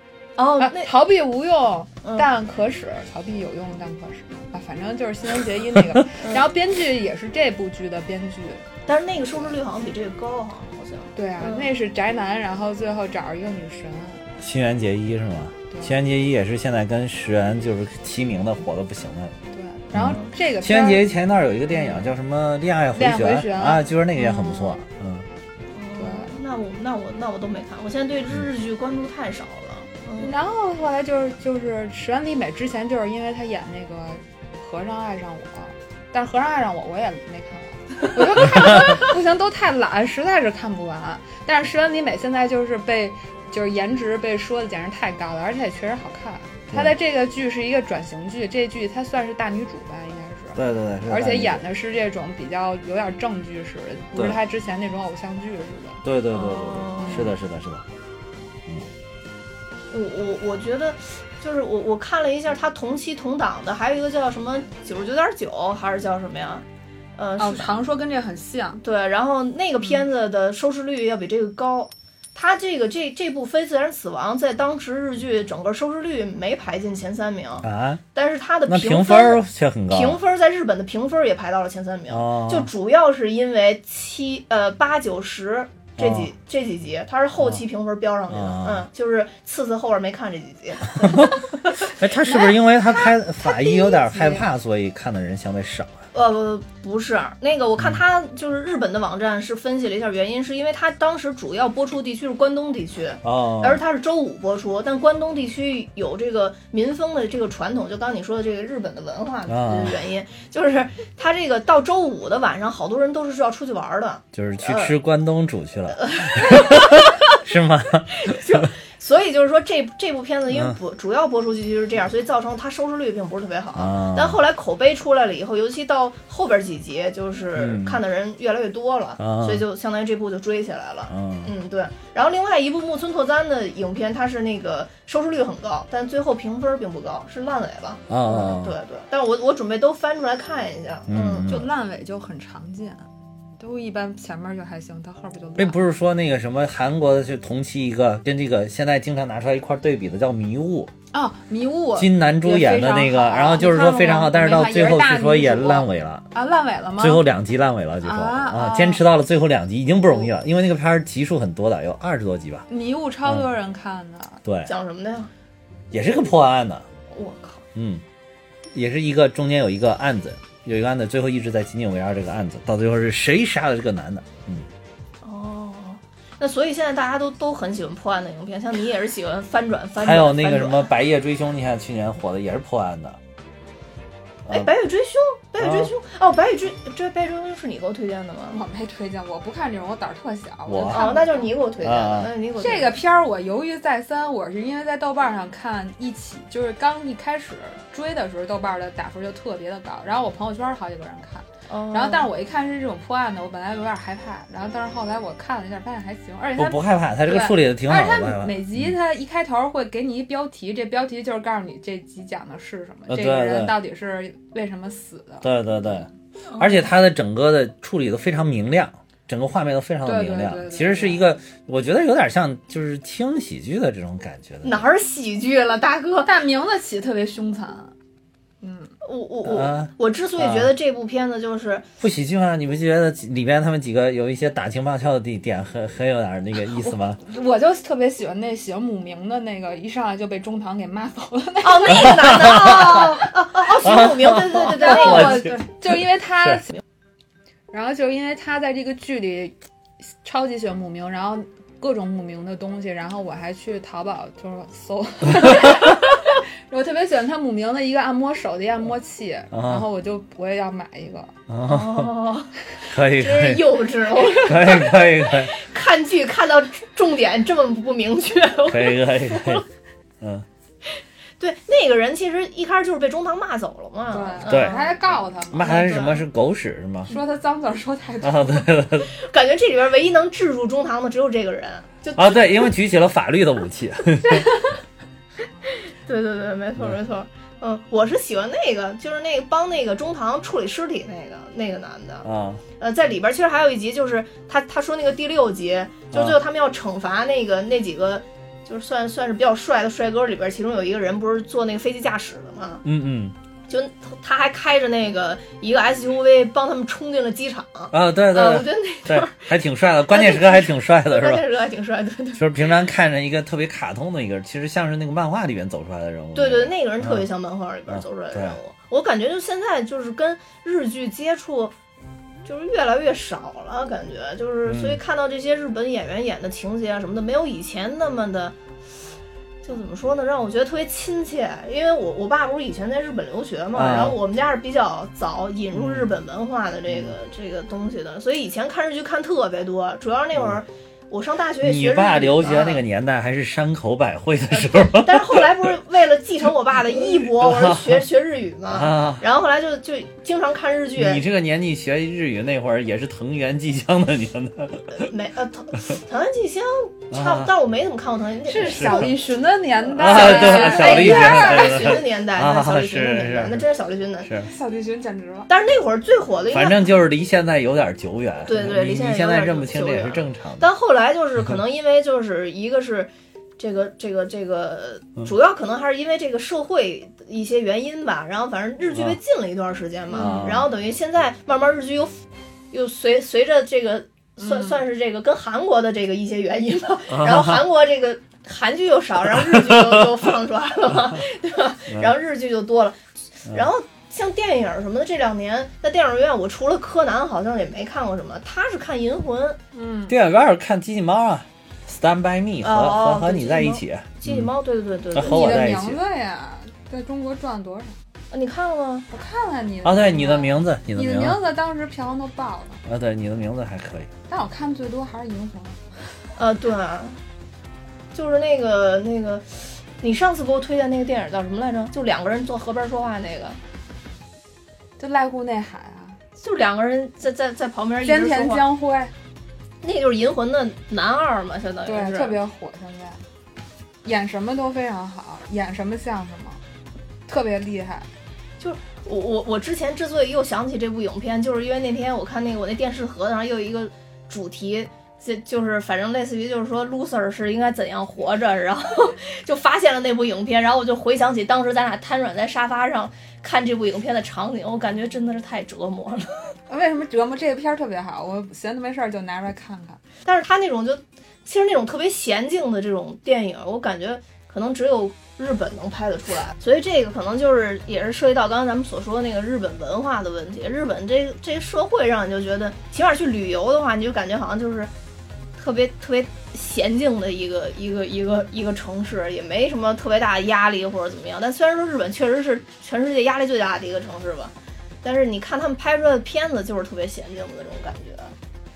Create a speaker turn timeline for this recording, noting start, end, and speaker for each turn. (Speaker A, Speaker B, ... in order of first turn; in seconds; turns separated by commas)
Speaker A: 0.4-0.9, Speaker B: 0.6-8.7, Speaker A: 8.8-11.7, Speaker B: 11.2-14.3, Speaker C: 14.4-19.4, Speaker B: 15.7-15.9, Speaker B: 19.5-21.1, Speaker C: 19.9-25.2, Speaker A: 20.0-20.3, Speaker B: 22.9-24.4, Speaker A: 24.2-24.8, Speaker A: 25.7-30.3, Speaker B: 26.0-26.4, Speaker B: 30.2-56.0, Speaker C: 38.5-38.8, Speaker C: 50.5-51.7, Speaker C: 54.1-54.4, Speaker C: 56.0-57.8, Speaker A: 56.3-57.3, Speaker B: 57.0-57.3, Speaker A: 59.9-66.6, Speaker A: 67.2-67.7, Speaker B: 67.4-68.8, Speaker A: 68.8-91.4, Speaker C: 77.6-78.0, Speaker C: 78.7-80.2, Speaker C: 82.1-82.7, Speaker C: 86.0-86.3, Speaker C: 88.3-88.9, Speaker C: 91.0-96.0, Speaker B: 92.2-92.5, Speaker A: 93.5-94.4, Speaker A: 96.1-114.9, Speaker C: 103.2-103.8, Speaker C: 109.5-110.0, Speaker C: 114.3-118.7, Speaker A: 116.0-117.2, Speaker A: 118.1-141.7, Speaker C: 123.8-124.4, Speaker C: 127.5-128.0, Speaker C: 129.2-129.6, Speaker C: 131.1-131.5, Speaker C: 138.1-138.8, Speaker C: 141.1-141.7, Speaker B: 141.4-143.1, Speaker B: 143.6-145.8, Speaker C: 145.6-150.9, Speaker B: 151.1-157.2, Speaker C: 151.9-156.2, Speaker C: 157.0-162.7, Speaker B: 158.0-159.0, Speaker B: 162.7-164.4, Speaker C: 164.4-164.7, Speaker A: 164.7-165.3, Speaker C: 165.9-166.8, Speaker A: 167.1-167.6, Speaker C: 167.7-168.0, Speaker C: 168.7-174.7, Speaker A: 175.2-180.9, Speaker C: 180.0-183.2, Speaker A: 184.4-188.6, Speaker C: 185.6-185.9, Speaker B: 188.5-191.5, Speaker C: 190.7-191.1, Speaker A: 190.9-192.9, Speaker C: 191.8-192.3, Speaker B: 192.6-216.1, Speaker A: 201.7-202.3, Speaker C: 206.6-208.9, Speaker C: 213.1-213.7, Speaker C: 215.4-224.8, Speaker A: 216.5-216.8, Speaker B: 220.0-221.2, Speaker A: 224.6-226.3, Speaker B: 226.2-227.9, Speaker B: 228.6-228.9, Speaker A: 229.0-231.8, Speaker C: 229.4-230.7, Speaker C: 232.0-237.2, Speaker B: 236.7-242.5, Speaker A: 241.6-245.6, Speaker C: 242.0-243.1, Speaker C: 243.8-246.6, Speaker B: 244.7-246.8, Speaker B: 247.7-249.5, Speaker B: 250.2-261.3, Speaker C: 259.5-259.9, Speaker C: 261.5-262.1, Speaker A: 261.6-269.6, Speaker C: 262.9-263.8, Speaker C: 264.4-265.5, Speaker C: 268.7-269.6, Speaker C: 270.2-270.4, Speaker A: 271.4-276.2, Speaker B: 274.1-275.7, Speaker C: 274.4-274.8, Speaker C: 275.5-277.1, Speaker B: 277.1-278.6, Speaker C: 278.2-279.1, Speaker A: 279.1-282.7, Speaker C: 282.1-284.5, Speaker A: 285.6-292.3, Speaker C: 292.2-292.6, Speaker A: 292.8-302.8, Speaker C: 296.1-296.4, Speaker C: 302.8-303.3, Speaker A: 303.7-309.5, Speaker C: 307.9-311.5, Speaker A: 310.1-312.6, Speaker C: 312.4-317.3, Speaker A: 316.3-321.7, Speaker C: 317.9-318.6, Speaker A: 322.4-328.6, Speaker C: 324.6-325.0, Speaker A: 329.6-342.8, Speaker C: 333.7-334.2, Speaker C: 335.7-336.1, Speaker C: 341.6-345.5, Speaker A: 344.5-351.2, Speaker C: 347.1-348.0, Speaker C: 348.7-349.2, Speaker C: 350.9-355.1, Speaker A: 354.9-359.1, Speaker C: 357.1-357.5, Speaker B: 358.4-362.0, Speaker C: 358.6-359.1, Speaker A: 359.9-364.3, Speaker C: 359.9-363.6, Speaker C: 364.2-364.5, Speaker B: 364.4-365.5, Speaker A: 365.5-366.9, Speaker C: 366.5-370.7, Speaker A: 368.4-399.6, Speaker C: 380.1-380.7, Speaker C: 387.1-387.6, Speaker C: 389.3-390.1, Speaker B: 399.7-400.1, Speaker C: 400.1-404.5, Speaker A: 402.6-405.6, Speaker C: 405.1-406.0, Speaker B: 405.1-407.9, Speaker A: 408.3-409.1, Speaker B: 409.1-412.8, Speaker C: 409.8-411.4, Speaker C: 412.8-414.1, Speaker B: 414.3-416.1, Speaker A: 416.4-417.2, Speaker A: 418.1-423.6, Speaker B: 425.0-426.2, Speaker A: 426.4-428.6, Speaker B: 428.0-429.1, Speaker A: 429.8-432.4, Speaker B: 431.9-433.2, Speaker B: 434.0-436.6, Speaker B: 437.3-438.1, Speaker A: 438.6-456.3, Speaker B: 456.7-460.0, Speaker A: 460.2-474.9, Speaker A: 475.6-488.3